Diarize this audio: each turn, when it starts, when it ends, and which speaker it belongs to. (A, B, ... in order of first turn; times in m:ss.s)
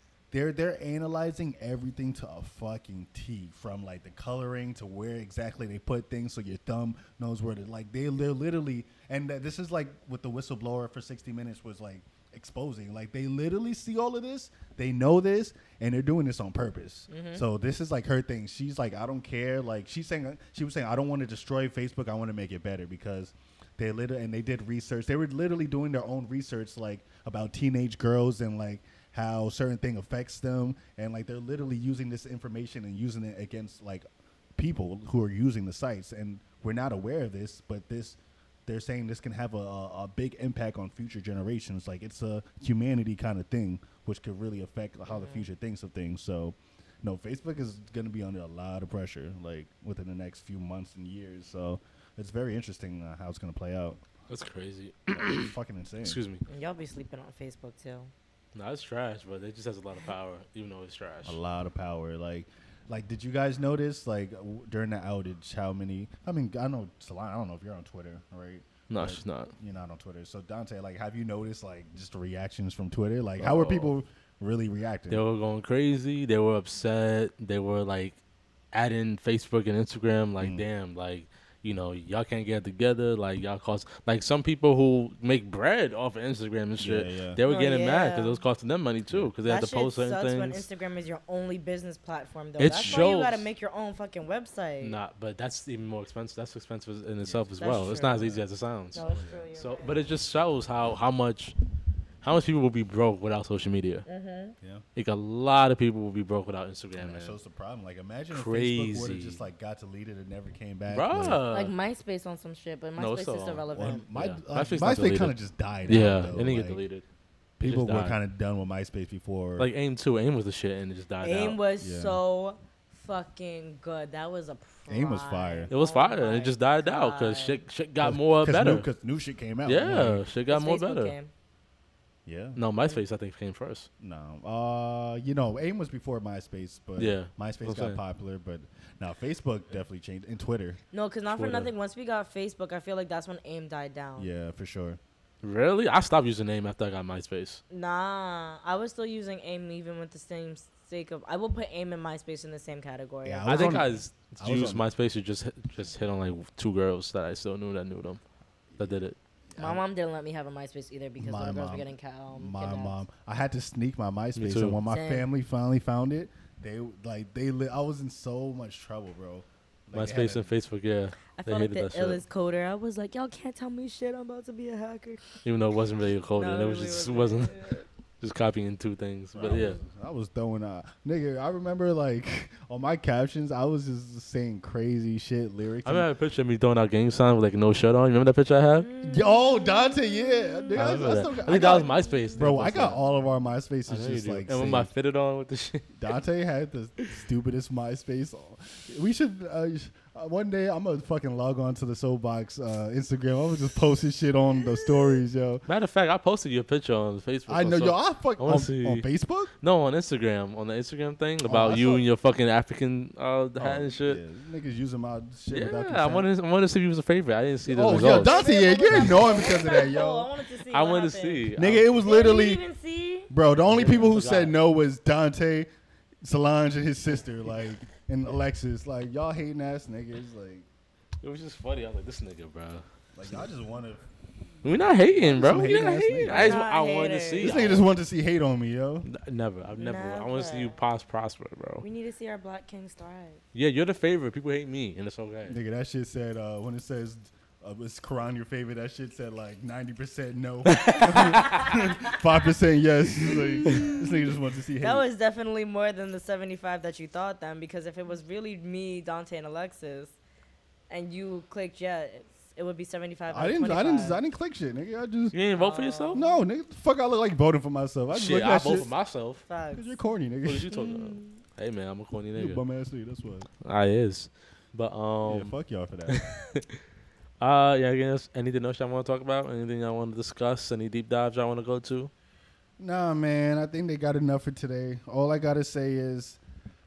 0:00.3-0:34.0 A
0:17.1-0:17.4 B
0:34.6-0:54.0 A
0:45.1-0:45.4 B
0:54.3-0:55.5 C
0:55.1-0:56.2 A
0:56.0-0:56.4 C
0:56.5-0:58.1 B
0:58.6-1:01.4 C
1:01.2-1:15.2 A
1:08.9-1:09.5 C
1:13.4-1:13.9 C
1:15.1-1:18.2 C
1:18.7-1:30.7 C
1:20.4-1:20.6 A
1:26.8-1:27.4 A
1:27.5-1:28.4 B
1:29.5-1:35.0 B
1:32.6-1:33.5 C
1:34.8-1:39.0 C
1:37.2-1:37.5 A
1:37.6-1:38.4 B
1:38.1-1:38.4 A
1:38.9-1:40.0 B
1:38.9-1:39.5 A
1:39.6-1:41.6 C
1:42.2-1:44.0 C
1:44.1-1:44.6 B
1:45.0-1:47.4 C
1:47.0-1:51.4 A
1:48.3-1:49.4 C
1:50.9-1:51.7 C
1:51.5-1:54.1 B
1:53.0-1:57.0 C
1:53.7-1:56.8 A
1:57.6-1:59.7 A
1:57.6-1:58.2 C
1:59.6-2:01.6 C
2:01.2-2:07.6 B
2:01.8-2:02.2 A
2:04.9-2:05.7 A
2:05.7-2:08.9 C
2:08.0-2:10.2 A
2:09.7-2:11.2 C
2:10.5-2:11.3 B
2:12.3-2:12.6 A
2:12.6-2:13.9 C
2:14.0-2:20.8 A
2:17.0-2:18.0 C
2:20.9-2:24.3 B
2:21.3-2:21.7 C
2:24.2-2:25.0 A
2:25.4-2:27.6 C
2:27.7-2:33.8 B
2:33.2-2:34.8 A
2:33.5-2:38.2 C
2:38.8-2:39.2 C
2:39.5-2:39.8 A
2:39.6-2:43.0 B
2:41.2-2:50.5 A
2:44.4-2:44.8 C
2:44.9-2:45.3 B
2:49.9-2:52.2 C
2:51.3-2:55.2 B
2:55.4-2:59.8 C
2:56.4-2:57.8 B
2:59.3-3:06.1 A
3:05.8-3:08.9 C
3:08.8-3:10.9 B
3:09.0-3:14.9 A
3:10.7-3:13.0 C
3:11.7-3:12.1 B
3:13.9-3:16.0 C
3:16.0-3:25.6 A
3:25.7-3:29.1 C
3:27.5-3:29.5 A
3:29.6-3:34.2 C
3:31.4-3:32.1 A
3:33.6-3:36.3 A
3:35.5-3:39.2 C
3:37.7-3:40.3 A
3:38.0-3:43.3 B
3:40.7-3:41.9 C
3:41.6-3:42.6 A
3:43.3-3:45.7 A
3:43.7-3:44.6 C
3:46.2-3:50.7 A
3:51.2-3:52.8 C
3:53.2-3:54.0 A
3:54.6-3:57.9 C
3:55.1-3:56.6 A
3:56.3-3:57.5 B
3:57.4-3:59.1 A
3:59.1-4:01.8 C
3:59.8-4:00.8 B
4:01.8-4:03.4 B
4:03.5-4:05.6 C
4:05.5-4:15.1 A
4:10.7-4:11.7 C
4:11.4-4:12.1 B
4:13.2-4:14.1 B
4:14.8-4:20.2 B
4:20.9-4:24.2 B
4:23.3-4:25.4 A
4:25.3-4:26.2 C
4:25.6-4:26.4 B
4:26.1-4:28.9 A
4:28.1-4:29.4 C
4:29.5-4:30.0 B
4:29.7-4:30.7 A
4:30.4-4:32.6 C
4:30.7-4:31.4 B
4:32.4-4:33.5 A
4:33.6-4:35.5 C
4:35.3-4:36.3 A
4:36.1-4:36.8 C
4:37.4-4:42.1 C
4:42.8-4:46.4 A